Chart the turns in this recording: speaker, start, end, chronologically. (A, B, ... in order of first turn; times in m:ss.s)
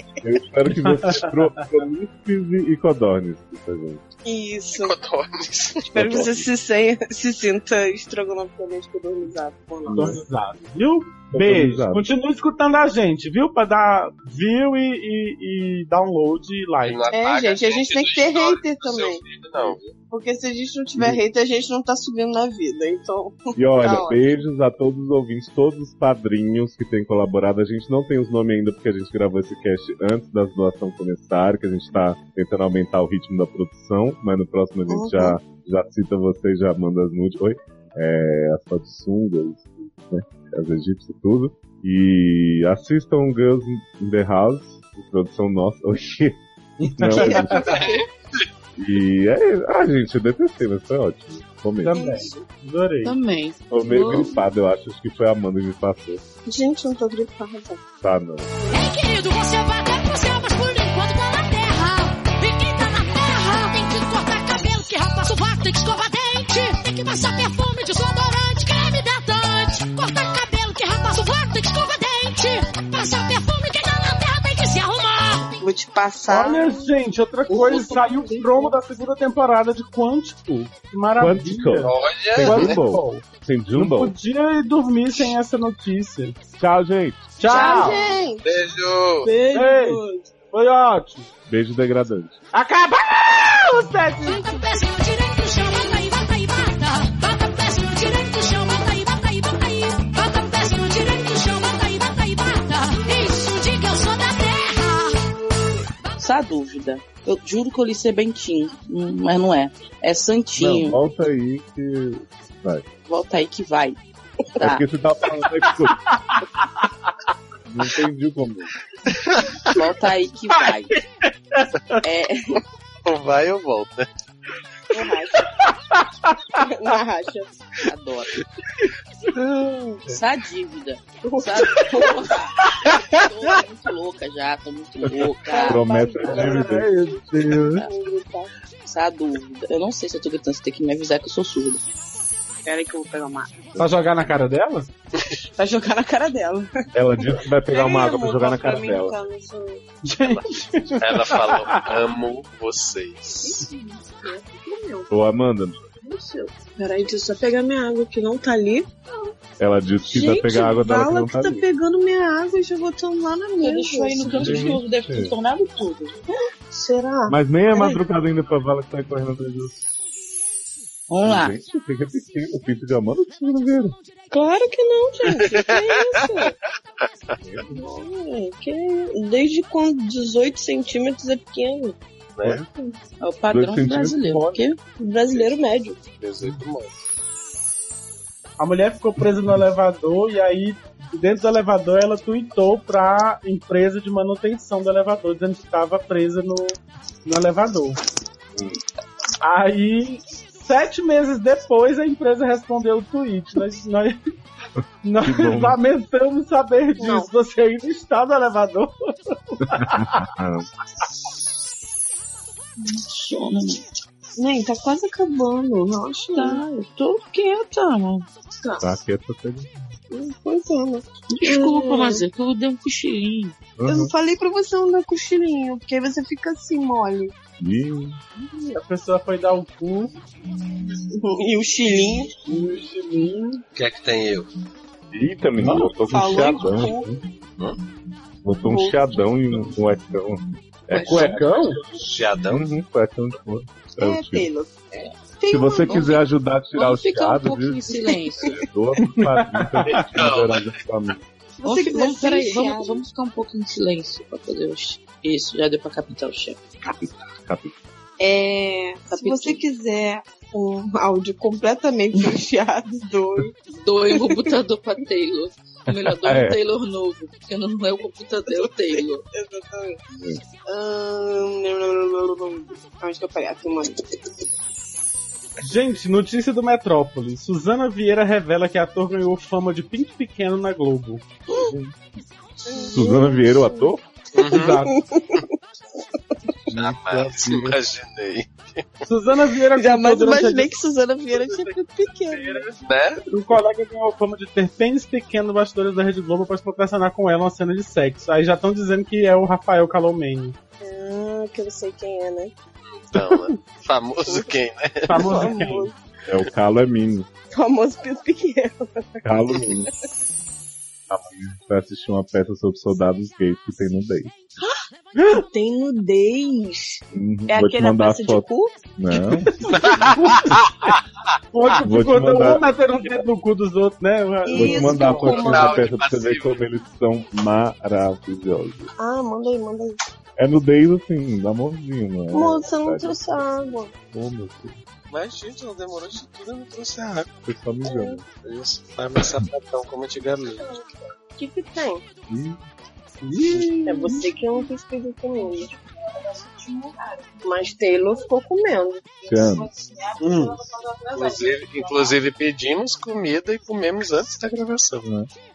0:00.2-0:04.0 A
0:00.8-0:01.5 B
0:04.2-0:05.0 C
0:04.7-0:05.9 D
0:05.9-0:10.2 C
0:05.9-0:06.5 A
0:09.9-0:10.2 A
0:09.9-0:17.1 B
0:11.3-0:12.1 A
0:16.8-0:19.8 D
0:17.1-0:19.2 C
0:19.9-0:24.3 C
0:23.6-0:46.4 A
0:34.9-0:35.4 C
0:46.8-0:47.8 B
0:47.0-0:47.6 A
0:47.2-0:48.0 E
0:47.3-0:47.8 C
0:47.7-0:48.4 D
0:48.8-0:52.2 A
0:51.8-0:53.2 B
0:51.9-0:52.4 C
0:53.0-0:54.3 E
0:53.7-0:56.2 A
0:56.5-0:57.8 C
0:58.0-0:58.5 A
0:58.7-1:15.5 F
1:15.6-1:16.9 C
1:16.3-1:23.2 B
1:17.5-1:18.8 C
1:21.2-1:24.2 A
1:21.8-1:22.8 D
1:23.8-1:26.4 B
1:26.6-1:27.4 A
1:27.4-1:28.0 B
1:27.5-1:28.4 C
1:27.5-1:28.1 E
1:28.4-1:29.3 D
1:29.2-1:30.3 C
1:29.5-1:31.3 B
1:31.5-1:32.4 A
1:32.5-1:34.4 B
1:34.2-1:45.2 F
1:46.2-1:51.0 E
1:50.6-1:52.8 A
1:53.1-1:54.0 E
1:54.6-1:54.8 E
1:54.6-1:56.0 A
1:57.7-1:58.7 A
1:59.7-2:01.0 E
2:01.5-2:02.0 B
2:02.0-2:02.6 E
2:03.1-2:04.1 D
2:04.9-2:05.5 C
2:05.4-2:06.6 B
2:06.6-2:07.6 C
2:07.8-2:08.4 E
2:09.3-2:10.2 B
2:10.1-2:15.9 E
2:11.2-2:12.2 C
2:15.4-2:16.9 C
2:15.6-2:16.9 A
2:16.3-2:17.8 B
2:17.6-2:18.5 C
2:18.8-2:21.8 E
2:22.6-2:23.7 C
2:23.8-2:24.9 B
2:25.6-2:29.8 C
2:26.9-2:29.2 A
2:30.0-2:31.8 B
2:30.2-2:33.6 D
2:33.4-2:35.2 C
2:35.1-2:35.8 A
2:35.8-2:39.3 C
2:39.6-2:41.6 A
2:40.0-2:44.8 C
2:43.6-2:46.1 E
2:44.2-2:45.3 A
2:46.7-2:48.0 C
2:47.3-2:49.8 A
2:51.1-2:51.6 E
2:51.2-2:54.0 A
2:54.3-2:56.6 C
2:55.4-2:56.3 D
2:57.4-2:57.7 A
2:57.7-3:02.0 C
3:02.4-3:02.6 D
3:03.2-3:04.8 E
3:03.5-3:04.6 A
3:05.0-3:06.0 C
3:06.2-3:06.9 D
3:08.6-3:18.0 B
3:18.5-3:18.8 A
3:19.4-3:24.2 B
3:24.8-3:25.8 A
3:25.0-3:30.2 B
3:27.0-3:27.3 C
3:29.7-3:30.7 A
3:32.8-3:33.8 E
3:34.4-3:36.6 C
3:36.3-3:38.3 E
3:38.6-3:38.9 C
3:38.8-3:39.8 A
3:40.1-3:42.2 C
3:41.3-3:43.6 E
3:43.8-3:44.1 A
3:43.9-3:47.3 C
3:47.6-3:48.2 A
3:48.4-3:50.2 B
3:51.1-3:52.4 C
3:52.4-3:53.6 B
3:53.8-3:54.5 D
3:55.1-3:57.2 A
3:55.6-3:55.9 B
3:56.0-3:57.2 C
3:58.4-4:01.6 A
3:58.6-3:59.3 C
4:00.9-4:01.8 B
4:02.0-4:02.7 D
4:02.5-4:04.5 A
4:04.0-4:04.7 C
4:05.4-4:06.2 C
4:05.5-4:11.2 A
4:05.9-4:06.2 E
4:06.7-4:08.6 E
4:09.0-4:10.0 B
4:09.9-4:10.7 D
4:11.6-4:13.0 C
4:11.6-4:16.6 E
4:16.9-4:17.9 A
4:18.2-4:23.5 C
4:19.1-4:19.6 E
4:23.8-4:29.2 E
4:24.1-4:24.6 C
4:25.9-4:26.6 A
4:29.3-4:30.0 C
4:30.1-4:30.4 A
4:30.7-4:34.0 C
4:35.6-4:41.8 B
4:42.7-4:43.9 C
4:42.9-4:44.0 A
4:44.4-4:44.8 D
4:44.4-4:44.9 B
4:44.6-4:45.6 C
4:46.6-4:47.8 A
4:46.7-4:48.9 D
4:49.1-5:00.6 B
4:49.7-4:52.7 C
4:52.8-4:53.2 D
5:00.8-5:02.5 C
5:03.0-5:05.5 D
5:03.2-5:03.5 B
5:05.1-5:05.9 B
5:05.1-5:06.0 C
5:06.3-5:07.3 A
5:07.5-5:09.9 C
5:09.2-5:09.9 A
5:11.1-5:14.4 A
5:14.6-5:18.8 C
5:15.2-5:15.4 B
5:17.1-5:19.5 A
5:19.5-5:21.0 B
5:19.7-5:20.6 D
5:21.5-5:25.6 B
5:21.8-5:22.7 A
5:24.4-5:25.9 C
5:24.5-5:28.9 A
5:25.2-5:26.6 D
5:29.0-5:30.0 C
5:30.4-5:34.8 A
5:32.3-5:33.9 C
5:35.1-5:37.3 D
5:37.4-5:38.2 A
5:37.8-5:38.2 C
5:38.4-5:40.8 D
5:39.2-5:39.5 A
5:40.6-5:42.0 C
5:42.3-5:42.6 A
5:43.2-5:44.3 B
5:43.8-5:52.2 C
5:49.3-5:49.7 A
5:50.2-5:50.6 B
5:51.1-5:55.1 D
5:55.0-5:55.3 A